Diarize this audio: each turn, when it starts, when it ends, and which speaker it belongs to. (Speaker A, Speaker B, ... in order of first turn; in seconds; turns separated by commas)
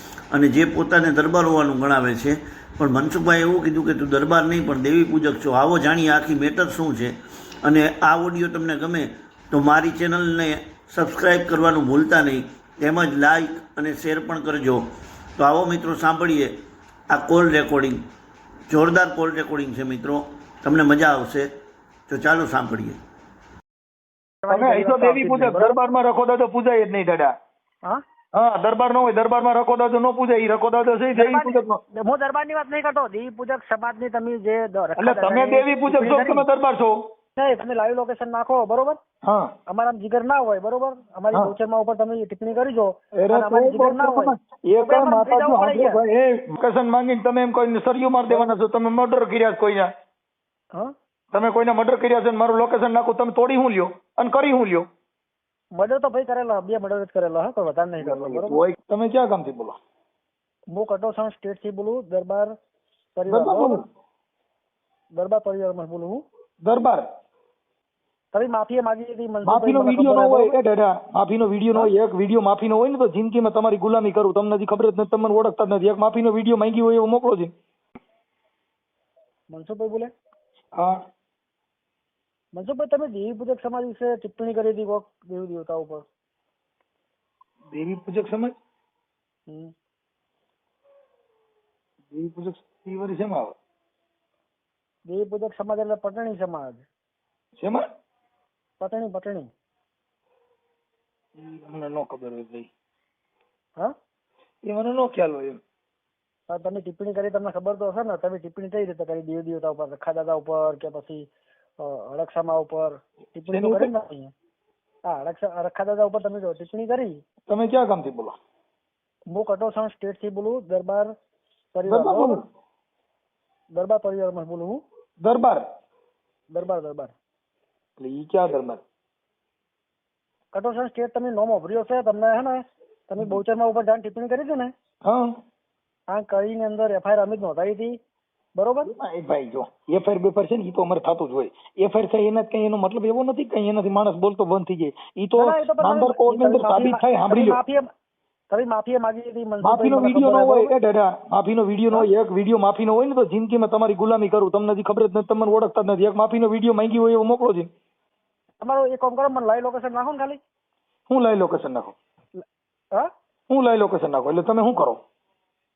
Speaker A: 0.3-14.8, Speaker A: 15.4-16.5, Speaker A: 17.1-18.0, Speaker A: 18.7-21.5, Speaker A: 22.1-23.0, Speaker B: 24.4-25.8, Speaker C: 24.5-27.3, Speaker C: 28.3-31.8, Speaker B: 31.1-36.5, Speaker C: 35.0-37.0, Speaker B: 37.4-39.0, Speaker C: 39.2-39.5, Speaker B: 39.7-46.0, Speaker C: 43.1-49.9, Speaker B: 48.3-48.5, Speaker C: 51.3-54.9, Speaker B: 55.8-58.6, Speaker C: 58.0-59.8, Speaker B: 60.7-62.5, Speaker B: 63.1-63.8, Speaker C: 63.3-63.8, Speaker B: 65.2-66.2, Speaker C: 66.6-67.0, Speaker B: 68.3-70.5, Speaker C: 69.5-77.5, Speaker B: 79.5-80.1, Speaker B: 82.5-86.1, Speaker C: 87.7-88.5, Speaker B: 89.5-89.7, Speaker C: 92.1-93.5, Speaker B: 95.1-96.8, Speaker C: 97.6-97.8, Speaker B: 98.8-99.5, Speaker C: 101.4-102.7, Speaker C: 104.7-105.6, Speaker B: 106.5-114.3, Speaker C: 113.5-113.9, Speaker B: 115.0-117.2, Speaker C: 117.5-118.3, Speaker B: 119.3-121.1, Speaker B: 121.7-122.4, Speaker C: 121.9-122.4, Speaker B: 123.7-124.8, Speaker C: 125.2-125.6, Speaker B: 126.5-127.2, Speaker C: 128.0-128.8, Speaker B: 130.5-134.7, Speaker C: 135.0-135.3, Speaker B: 136.1-138.0, Speaker B: 138.6-138.9, Speaker C: 138.8-147.6, Speaker B: 145.4-147.9, Speaker B: 148.5-150.7, Speaker C: 149.6-157.7, Speaker B: 158.6-160.4, Speaker C: 161.1-161.9, Speaker C: 163.5-165.0